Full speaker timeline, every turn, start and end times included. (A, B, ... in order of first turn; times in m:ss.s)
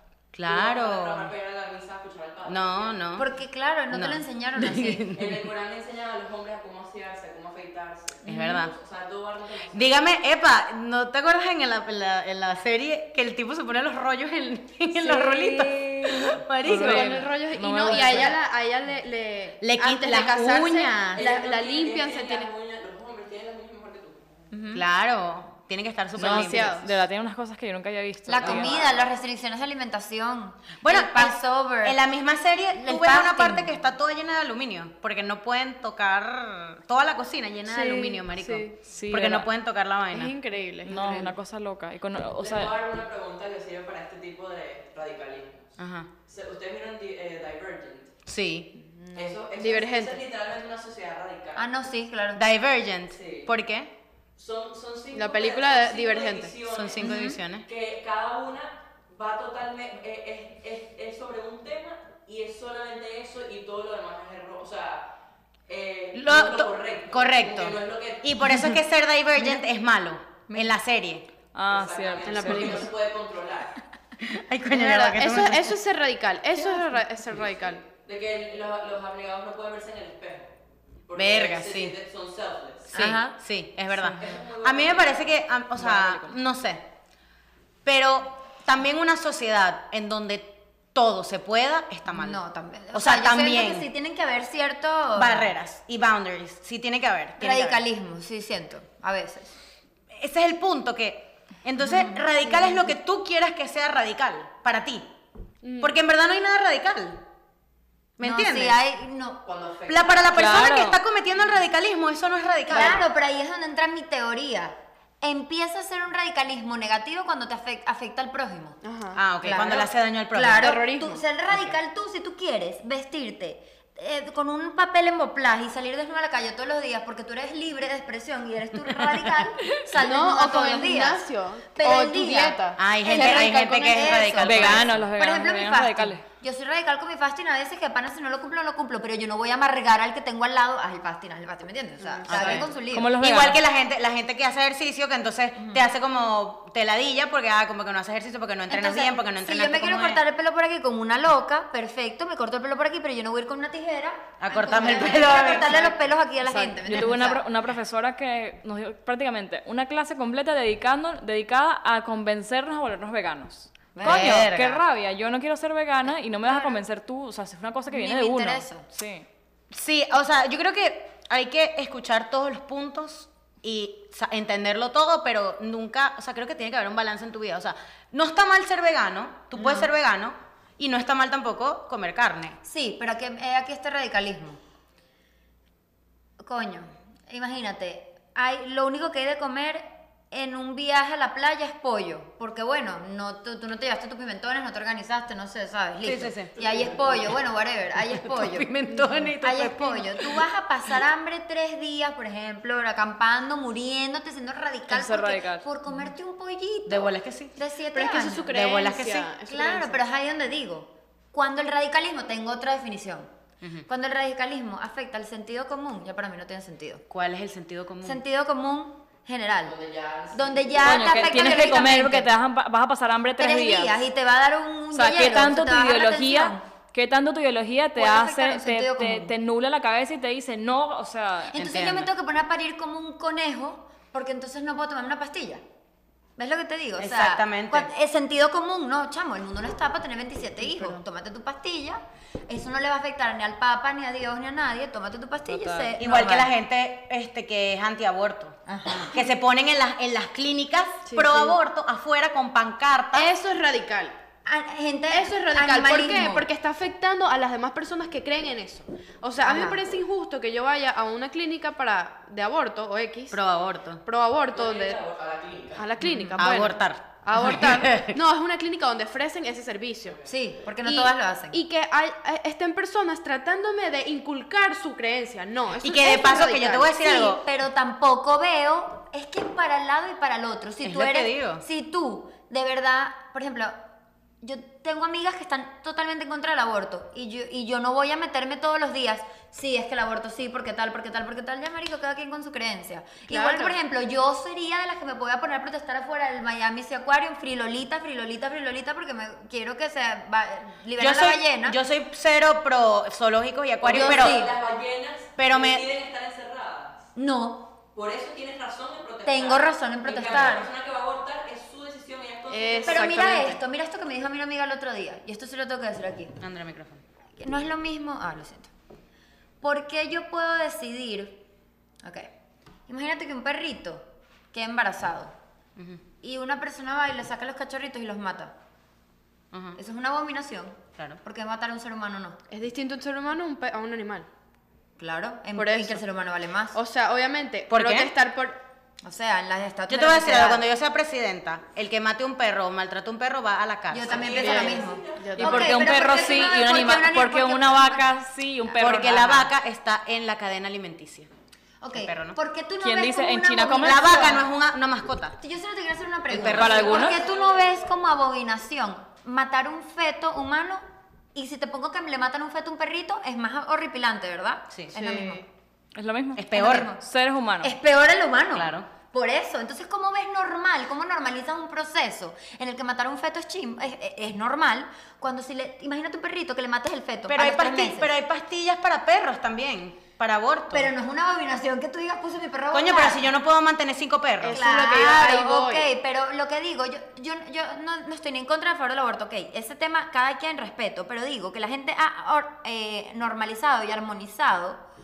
0:00.3-0:01.3 A
0:00.4-0:03.0 B
0:02.4-0:03.3 A
0:03.1-0:05.1 C
0:03.9-0:05.5 A
0:05.1-0:10.0 B
0:08.2-0:08.6 C
0:08.2-0:08.7 A
0:09.7-0:17.2 A
0:15.0-0:16.0 C
0:16.6-0:18.4 D
0:16.7-0:22.5 E
0:19.6-0:21.2 A
0:21.1-0:24.2 B
0:24.7-0:26.9 A
0:26.2-0:28.8 D
0:26.2-0:26.9 E
0:28.3-0:32.0 C
0:28.4-0:29.1 B
0:30.8-0:40.3 A
0:32.8-0:33.7 C
0:37.7-0:38.8 E
0:38.8-0:39.5 D
0:40.1-0:41.4 E
0:40.8-0:42.7 D
0:42.4-0:45.8 B
0:45.8-0:46.1 A
0:46.3-0:48.1 B
0:48.2-0:48.7 A
0:48.8-0:49.4 C
0:49.1-0:51.7 B
0:49.5-0:50.2 E
0:51.6-0:52.4 C
0:52.3-0:53.9 A
0:53.1-0:53.5 B
0:54.4-1:05.1 B
0:55.1-0:56.6 E
0:56.6-0:57.7 A
0:57.0-0:57.4 C
1:05.7-1:08.5 B
1:06.1-1:11.3 A
1:11.5-1:12.8 D
1:11.7-1:13.8 B
1:12.2-1:12.9 E
1:14.2-1:15.8 A
1:14.7-1:17.8 E
1:16.6-1:17.0 C
1:17.8-1:20.5 B
1:21.0-1:22.9 B
1:21.1-1:22.0 A
1:22.9-1:26.8 A
1:22.9-1:23.4 C
1:24.1-1:24.3 D
1:24.1-1:25.4 B
1:25.8-1:26.4 D
1:27.8-1:32.4 A
1:32.1-1:35.5 C
1:32.9-1:33.9 A
1:35.1-1:37.8 A
1:37.4-1:39.5 C
1:40.1-1:45.1 A
1:41.8-1:42.9 C
1:45.6-1:46.0 E
1:45.8-1:47.2 A
1:48.2-1:48.8 A
1:48.2-1:49.4 C
1:49.4-1:50.4 B
1:49.9-1:53.0 A
1:50.3-1:51.0 D
1:52.7-1:58.8 C
1:52.7-1:53.0 E
1:58.8-1:59.2 E
1:59.1-2:00.8 A
1:59.4-2:23.1 C
2:00.6-2:01.2 E
2:10.0-2:12.8 E
2:12.8-2:15.0 A
2:14.4-2:16.2 D
2:22.1-2:22.6 E
2:22.2-2:30.2 A
2:22.6-2:23.6 D
2:25.6-2:25.8 C
2:28.7-2:37.4 C
2:34.4-2:35.9 A
2:35.0-2:35.9 E
2:36.4-2:49.2 D
2:43.9-2:44.5 C
2:44.0-2:44.8 A
2:46.5-2:46.8 C
2:47.9-2:48.8 C
2:49.7-3:02.6 A
2:59.6-2:59.9 C
3:02.6-3:04.6 C
3:06.4-3:28.6 C
3:16.0-3:16.6 A
3:16.6-3:17.2 B
3:18.1-3:20.4 A
3:24.9-3:25.6 D
3:26.8-3:27.5 A
3:27.9-3:30.0 E
3:28.5-3:29.3 A
3:29.4-3:33.3 C
3:33.8-3:37.0 C
3:37.1-3:38.2 A
3:38.0-3:39.7 C
3:39.6-3:41.8 B
3:40.3-3:42.3 C
3:40.8-3:44.0 D
3:43.4-3:46.6 C
3:44.9-3:51.5 D
3:48.0-3:49.3 C
3:51.5-3:52.1 A
3:51.5-3:55.6 C
3:56.4-4:06.5 C
3:57.0-3:57.9 A
4:05.5-4:05.9 D
4:06.0-4:13.3 A
4:08.7-4:09.2 C
4:11.0-4:11.6 E
4:13.1-4:14.2 E
4:14.4-4:16.4 C
4:15.1-4:23.4 E
4:19.4-4:19.8 C
4:23.3-4:24.0 A
4:24.0-4:25.0 E
4:24.5-4:25.8 B
4:25.7-4:30.2 E
4:26.0-4:28.2 A
4:30.0-4:30.3 B
4:30.2-4:31.6 C
4:30.8-4:36.9 E
4:35.8-4:37.4 A
4:37.0-4:43.8 C
4:40.8-4:41.6 A
4:44.4-5:01.8 C
4:53.3-4:53.8 E
5:01.0-5:04.5 A
5:03.8-5:07.1 B
5:03.9-5:04.5 C
5:05.4-5:05.8 A
5:07.2-5:07.7 C
5:07.9-5:13.5 B
5:09.2-5:10.7 C
5:12.5-5:13.6 E
5:12.8-5:16.4 C
5:16.4-5:17.0 A
5:17.4-5:18.7 C
5:19.6-5:21.4 C
5:22.0-5:22.3 C
5:22.9-5:25.3 C
5:25.8-5:26.0 A
5:26.2-5:28.5 C
5:29.5-5:29.8 A
5:29.8-5:32.4 C
5:32.5-5:34.3 E
5:35.0-5:36.8 C
5:35.6-5:36.0 E
5:36.7-5:38.6 E
5:37.7-5:38.1 A
5:39.0-5:40.6 C
5:39.9-5:44.4 A
5:43.9-5:48.1 C
5:44.0-5:46.3 B
5:44.2-5:45.9 E
5:45.4-5:49.5 D
5:48.8-5:51.3 A
5:51.8-5:54.4 C
5:51.9-5:52.4 A
5:52.8-5:54.2 D
5:53.8-5:55.4 A
5:55.4-6:00.8 C
5:56.3-5:57.0 A
5:56.4-5:57.2 D
5:56.6-5:57.9 B
6:01.3-6:05.4 C
6:04.9-6:05.4 E
6:05.9-6:07.7 D
6:06.4-6:06.9 A
6:06.5-6:07.0 C
6:07.6-6:18.1 C
6:08.5-6:08.9 A
6:17.3-6:20.9 A
6:20.7-6:23.2 C
6:22.7-6:24.6 A
6:24.4-6:25.9 E
6:24.5-6:34.8 C